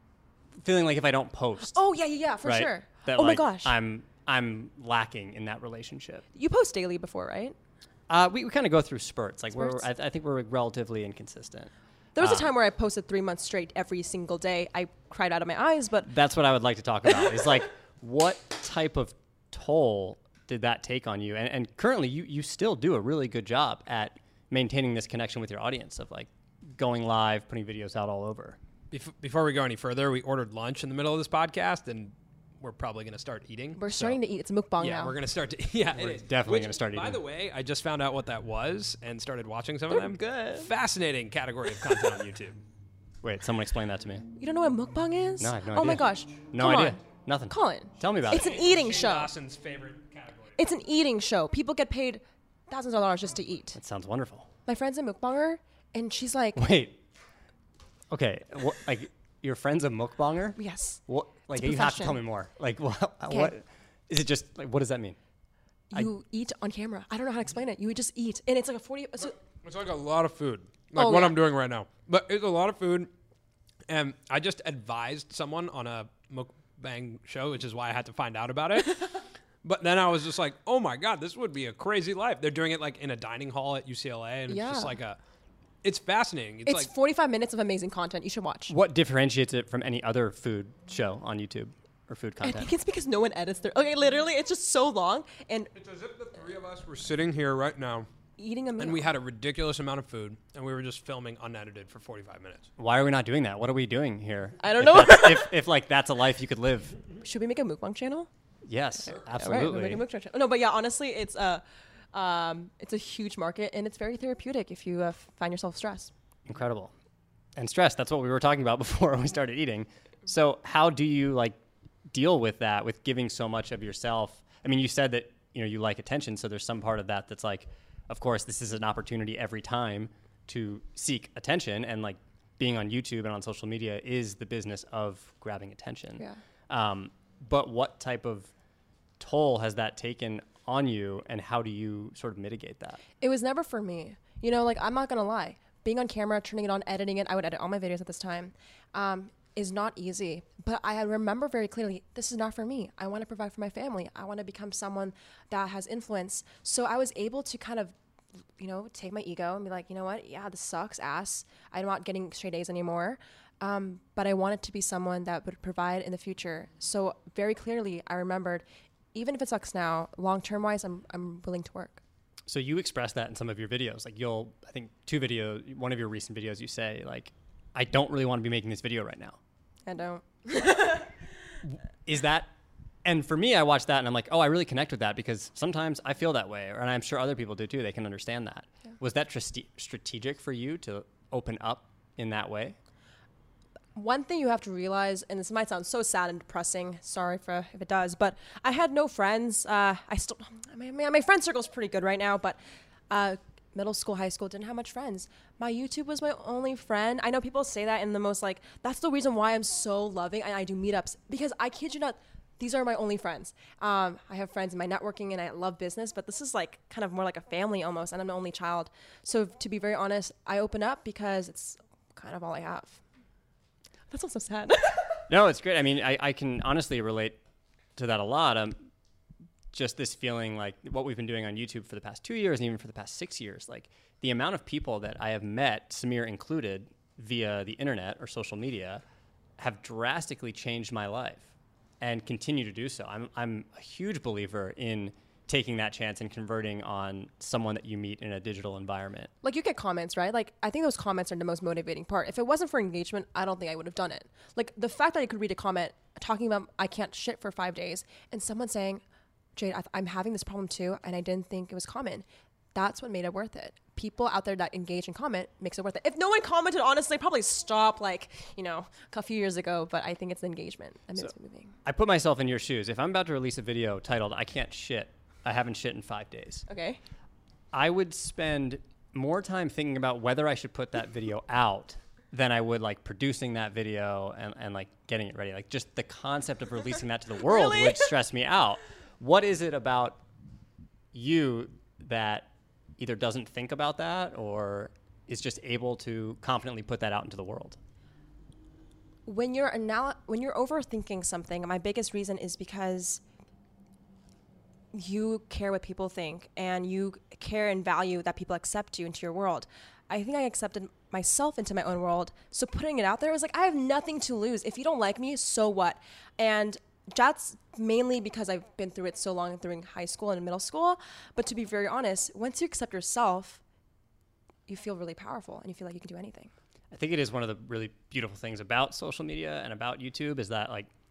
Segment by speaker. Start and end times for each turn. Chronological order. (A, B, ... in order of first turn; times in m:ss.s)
0:00.6-0:01.8 A
0:01.7-0:03.7 B
0:02.4-0:06.2 A
0:06.3-0:07.5 B
0:08.1-0:12.5 A
0:12.1-0:16.1 B
0:16.1-0:28.6 A
0:28.9-0:34.2 C
0:33.8-0:35.1 B
0:34.8-0:42.6 C
0:35.9-0:37.2 A
0:39.9-0:40.7 B
0:43.2-0:44.3 A
0:44.4-0:49.3 B
0:45.4-0:48.6 A
0:48.5-0:50.6 C
0:50.6-0:53.8 B
0:53.7-0:54.5 A
0:54.6-0:56.6 B
0:56.5-0:57.0 A
0:58.1-1:05.2 A
1:00.6-1:01.0 B
1:01.5-1:02.2 B
1:05.9-1:09.4 B
1:09.6-1:13.1 C
1:11.0-1:11.4 B
1:13.9-1:25.2 C
1:24.5-1:25.0 B
1:25.8-1:26.9 C
1:26.6-1:28.7 B
1:28.7-1:32.7 A
1:32.4-1:35.7 B
1:35.8-1:38.1 C
1:38.4-1:39.1 B
1:38.8-1:42.7 C
1:42.8-1:47.0 A
1:44.6-1:45.5 B
1:47.2-1:48.3 B
1:48.6-1:50.0 A
1:49.0-1:56.1 B
1:56.4-1:56.9 A
1:57.6-2:01.6 A
2:02.1-2:18.5 A
2:19.2-2:23.0 A
2:23.2-2:38.0 B
2:38.6-2:52.0 B
2:52.5-2:59.4 A
2:59.9-3:01.1 B
3:01.7-3:02.5 A
3:03.0-3:12.8 A
3:13.9-3:22.6 B
3:23.1-3:43.0 B
3:44.1-3:45.2 B
3:45.3-3:47.4 A
3:48.0-3:48.8 A
3:49.7-3:59.0 A
3:59.6-4:09.3 A
4:09.4-4:19.0 B
4:19.6-4:31.7 B
4:31.8-4:36.6 A
4:36.7-4:37.0 B
4:37.7-4:50.2 A
4:47.7-4:48.0 B
4:51.1-4:57.8 A
4:59.2-5:03.2 B
5:04.9-5:23.6 B
5:24.7-5:26.5 B
5:26.9-5:30.9 A